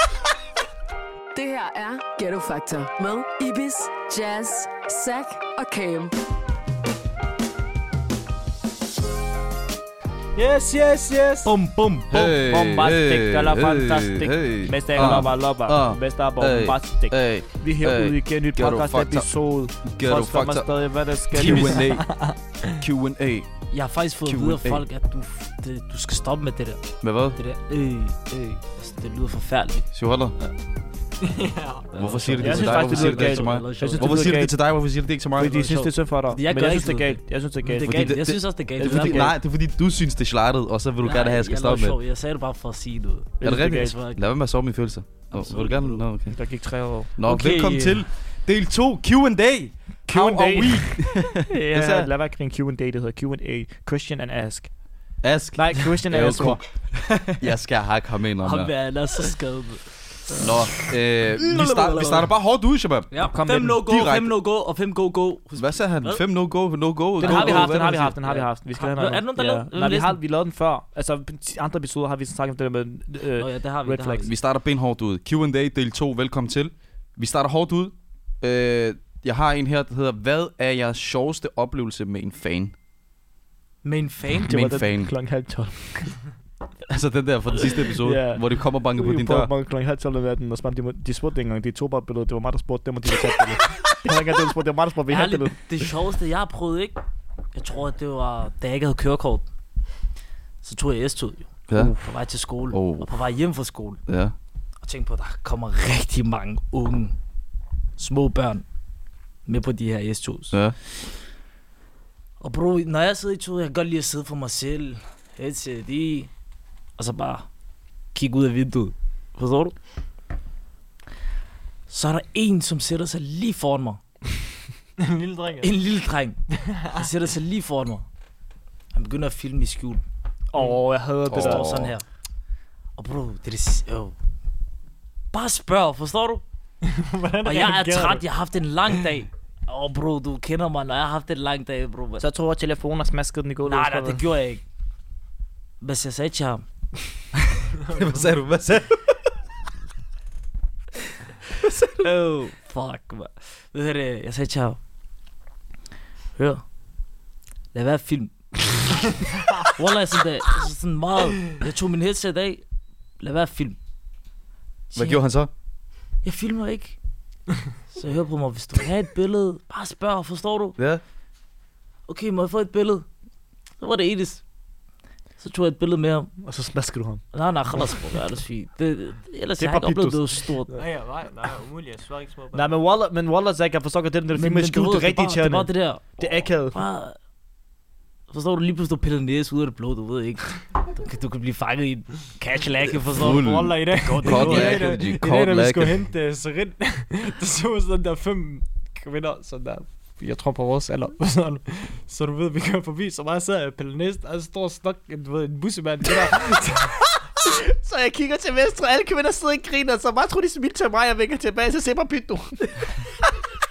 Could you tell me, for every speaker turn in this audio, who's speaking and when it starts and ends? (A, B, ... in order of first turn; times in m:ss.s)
0:01.3-0:06.1 A
0:10.4-0:11.5 B
0:11.4-0:21.8 C
0:12.1-0:19.3 D
0:19.8-0:20.7 D
0:21.3-0:23.6 D
0:21.5-0:22.4 B
0:23.7-0:29.9 E
0:24.2-0:24.8 D
0:27.0-0:27.4 D
0:29.9-0:30.4 D
0:31.2-0:31.9 B
0:31.9-0:34.4 E
0:32.0-0:35.7 D
0:32.4-0:34.6 C
0:35.4-0:39.3 C
0:35.5-0:39.3 E
0:37.8-0:42.0 D
0:41.0-0:44.2 E
0:43.4-0:44.0 C
0:43.4-0:46.4 D
0:45.3-0:46.1 E
0:46.3-0:47.1 C
0:47.2-0:52.1 D
0:47.2-0:48.0 E
0:50.1-0:54.7 C
0:55.2-0:58.7 D
0:55.6-0:56.6 C
0:58.4-1:02.3 E
1:00.4-1:03.1 D
1:03.1-1:06.2 E
1:03.2-1:03.8 C
1:03.6-1:04.3 D
1:05.6-1:08.2 D
1:07.2-1:10.2 E
1:07.2-1:14.3 C
1:13.4-1:14.3 E
1:14.2-1:22.7 D
1:23.8-1:24.7 E
1:24.5-1:25.1 D
1:24.5-1:26.3 C
1:26.9-1:29.5 D
1:27.9-1:35.9 C
1:35.1-1:37.0 E
1:37.6-1:39.5 E
1:40.6-1:44.0 E
1:42.7-1:43.1 D
1:44.1-1:44.3 D
1:44.8-1:47.2 E
1:48.0-1:48.6 E
1:49.5-1:50.6 E
1:52.4-1:56.3 E
1:57.0-1:57.5 E
1:58.1-1:59.8 E
2:01.9-2:04.0 E
2:05.0-2:05.7 B
2:05.6-2:08.0 E
2:06.7-2:07.1 B
2:08.9-2:10.0 E
2:10.5-2:11.7 C
2:11.3-2:11.9 D
2:11.3-2:12.0 E
2:13.0-2:14.2 E
2:15.3-2:16.4 E
2:16.8-2:18.2 B
2:17.4-2:22.2 E
2:22.2-2:24.2 C
2:23.6-2:24.6 E
2:25.8-2:26.6 E
2:27.9-2:29.3 D
2:31.6-2:31.9 D
2:32.0-2:34.8 E
2:36.4-2:36.6 E
2:37.7-2:39.1 E
2:39.6-2:42.6 E
2:43.2-2:43.8 E
2:44.9-2:45.2 E
2:44.9-2:45.5 D
2:46.2-2:47.0 E
2:47.9-2:50.8 E
2:52.1-2:53.1 E
2:53.8-2:54.4 E
2:55.4-2:56.3 E
2:56.4-2:57.2 C
2:57.3-3:00.8 E
2:59.6-3:00.8 C
3:00.7-3:02.8 B
3:02.5-3:06.8 C
3:04.4-3:07.2 E
3:08.3-3:14.9 E
3:13.1-3:16.0 D
3:13.2-3:27.0 B
3:27.4-3:32.8 C